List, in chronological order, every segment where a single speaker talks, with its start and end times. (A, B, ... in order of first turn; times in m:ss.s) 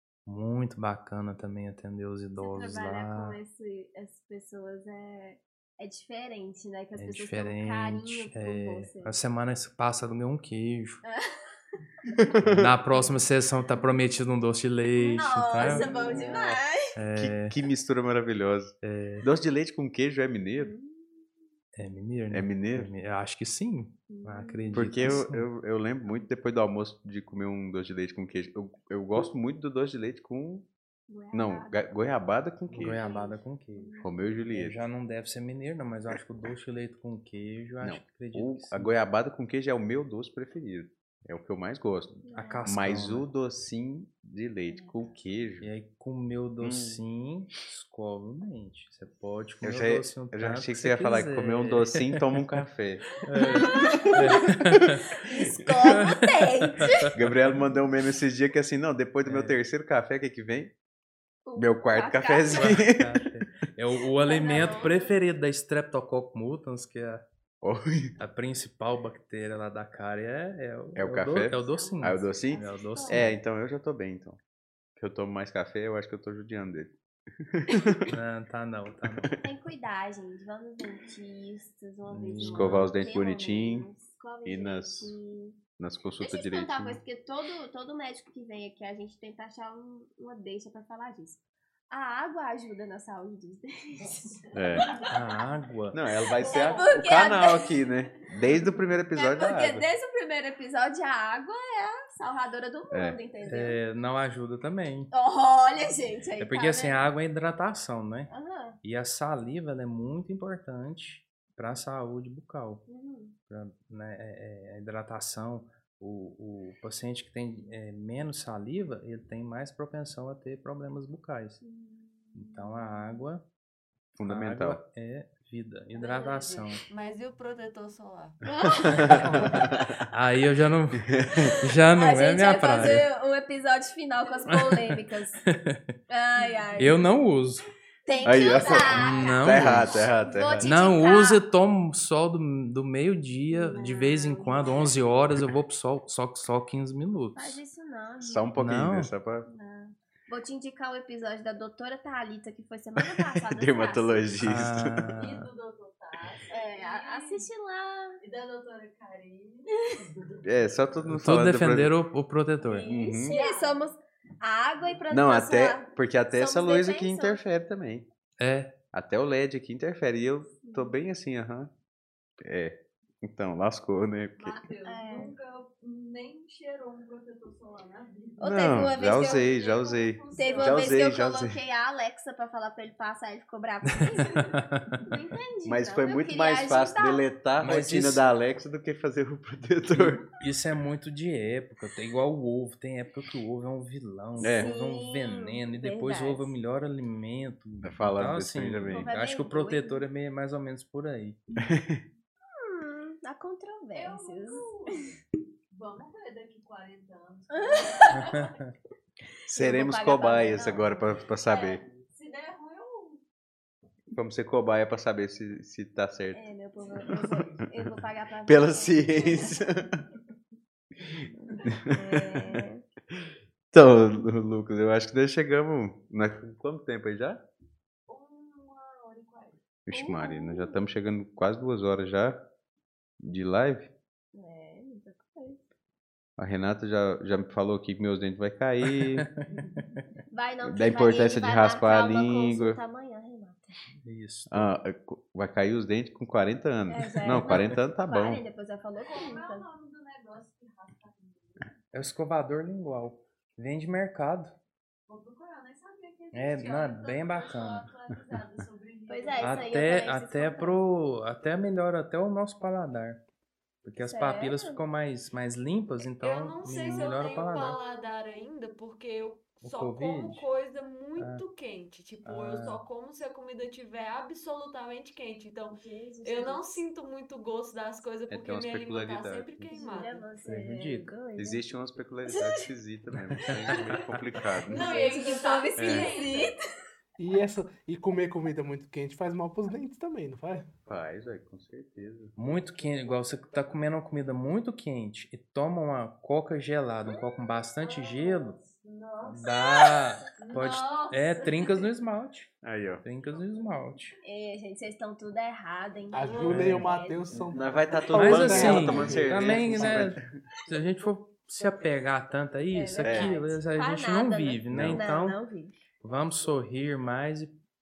0:00.3-0:03.4 A
0:02.4-0:09.2 B
0:07.0-0:11.0 A
0:11.0-0:11.6 B
0:12.1-0:12.7 C
0:12.5-0:16.3 A
0:12.9-0:13.2 B
0:15.0-0:17.0 B
0:15.6-0:16.6 C
0:17.0-0:17.6 A
0:17.2-0:20.7 C
0:18.8-0:19.3 A
0:20.6-0:21.3 B
0:21.8-0:25.4 A
0:22.3-0:22.9 C
0:24.1-0:25.2 B
0:24.7-0:30.7 C
0:31.1-0:31.8 B
0:31.3-0:33.0 C
0:32.7-0:38.9 A
0:32.8-0:34.1 B
0:34.0-0:34.8 C
0:37.8-0:45.7 C
0:42.2-0:42.7 B
0:42.3-0:43.3 A
0:44.7-0:45.2 B
0:45.6-0:52.6 A
0:46.6-0:47.0 C
0:49.6-0:53.0 C
0:53.3-0:55.0 A
0:53.4-0:57.2 B
0:53.8-0:55.0 C
0:55.7-0:56.0 C
0:57.0-0:57.4 A
0:57.1-1:00.7 C
0:59.2-0:59.6 A
1:01.5-1:02.9 B
1:01.6-1:03.2 C
1:02.5-1:07.2 A
1:04.2-1:05.1 B
1:07.6-1:08.2 C
1:08.2-1:13.4 A
1:11.0-1:14.4 C
1:11.5-1:13.3 B
1:15.0-1:18.1 C
1:18.1-1:19.3 A
1:19.4-1:25.6 B
1:22.1-1:22.9 A
1:22.4-1:23.9 C
1:24.4-1:25.2 C
1:25.8-1:27.0 C
1:26.2-1:35.0 B
1:34.5-1:34.9 C
1:34.8-1:35.0 D
1:35.1-1:36.0 A
1:35.9-1:39.9 C
1:36.4-1:37.5 D
1:36.4-1:37.7 B
1:39.1-1:43.8 B
1:42.9-1:43.2 C
1:43.5-1:45.1 A
1:45.1-1:47.0 B
1:46.4-1:48.3 A
1:48.3-1:48.8 B
1:48.8-1:52.8 A
1:52.9-1:53.4 B
1:53.5-2:01.6 A
2:01.6-2:03.2 B
2:02.4-2:03.4 A
2:04.2-2:04.8 C
2:04.3-2:06.8 A
2:06.0-2:06.6 D
2:06.9-2:09.0 E
2:08.5-2:09.8 B
2:08.8-2:09.9 C
2:09.1-2:13.0 A
2:11.0-2:11.6 C
2:11.3-2:15.4 B
2:14.5-2:15.8 A
2:16.1-2:17.0 B
2:16.4-2:16.8 D
2:16.8-2:17.6 A
2:18.1-2:21.4 B
2:18.2-2:18.8 D
2:18.2-2:20.8 C
2:18.9-2:20.1 A
2:20.6-2:27.6 A
2:23.5-2:25.0 B
2:27.4-2:28.5 B
2:28.2-2:29.5 C
2:28.6-2:29.1 A
2:29.5-2:34.4 B
2:33.0-2:35.1 C
2:34.4-2:35.5 A
2:35.1-2:37.5 D
2:36.5-2:38.2 B
2:38.2-2:40.4 D
2:40.4-2:41.9 C
2:41.1-2:42.9 A
2:42.6-2:47.4 B
2:42.9-2:43.4 C
2:43.3-2:43.9 D
2:45.1-2:48.0 C
2:48.4-2:48.8 A
2:48.9-2:51.7 C
2:50.6-2:51.0 B
2:52.4-2:54.6 C
2:54.4-3:01.0 D
2:54.8-2:55.3 B
2:58.4-2:59.5 B
2:58.4-3:01.6 C
3:00.3-3:07.2 B
3:04.4-3:05.0 A
3:05.7-3:10.2 C
3:07.6-3:08.3 A
3:10.4-3:21.4 A
3:14.4-3:14.7 C
3:14.4-3:16.5 B
3:17.8-3:19.1 C
3:18.9-3:20.1 B
3:21.6-3:22.0 C
3:22.5-3:25.1 B
3:23.9-3:25.2 D
3:25.7-3:28.7 D
3:27.5-3:28.3 B
3:28.2-3:28.7 A
3:29.5-3:31.8 C
3:29.5-3:31.7 B
3:31.5-3:33.2 D
3:34.1-3:36.4 C
3:36.3-3:39.6 B
3:37.2-3:37.6 C
3:38.5-3:40.0 C
3:41.4-3:42.8 B
3:41.7-3:42.6 C
3:43.2-3:47.4 C
3:48.1-3:49.6 D
3:49.9-3:52.4 C
3:49.9-3:50.8 B
3:53.2-3:53.9 C
3:54.3-3:55.6 B
3:56.4-3:59.3 C
3:58.9-3:59.3 A
4:00.3-4:03.8 B
4:00.6-4:02.8 C
4:04.0-4:04.7 A
4:04.5-4:08.4 C
4:06.9-4:09.6 B
4:07.2-4:07.8 A
4:09.0-4:11.8 D
4:11.9-4:14.5 A
4:15.1-4:20.0 D
4:16.3-4:17.9 A
4:19.1-4:20.8 B
4:19.4-4:23.2 A
4:23.8-4:27.8 A
4:24.0-4:24.8 B
4:26.2-4:40.1 E
4:26.7-4:27.8 D
4:29.6-4:30.5 A
4:31.2-4:31.4 A
4:32.2-4:32.8 A
4:35.7-4:36.9 B
4:38.3-4:39.7 C
4:39.7-4:41.6 B
4:39.8-4:40.2 D
4:40.4-4:41.1 A
4:41.4-4:45.0 C
4:42.3-4:42.6 B
4:43.2-4:44.0 A
4:44.7-4:46.6 B
4:44.7-4:46.4 E
4:44.7-4:46.2 D
4:45.8-4:46.1 A
4:47.2-4:50.7 F
4:50.9-4:52.3 C
4:52.4-4:58.6 A
4:57.8-5:01.9 D
4:59.2-5:04.2 A
5:02.6-5:03.0 C
5:04.2-5:07.5 B
5:06.1-5:10.1 F
5:06.3-5:06.6 E
5:06.5-5:06.9 A
5:07.5-5:10.2 C
5:08.2-5:15.4 A
5:08.6-5:09.0 B
5:12.7-5:15.8 B
5:13.0-5:13.4 C
5:14.7-5:15.0 C
5:16.0-5:17.6 A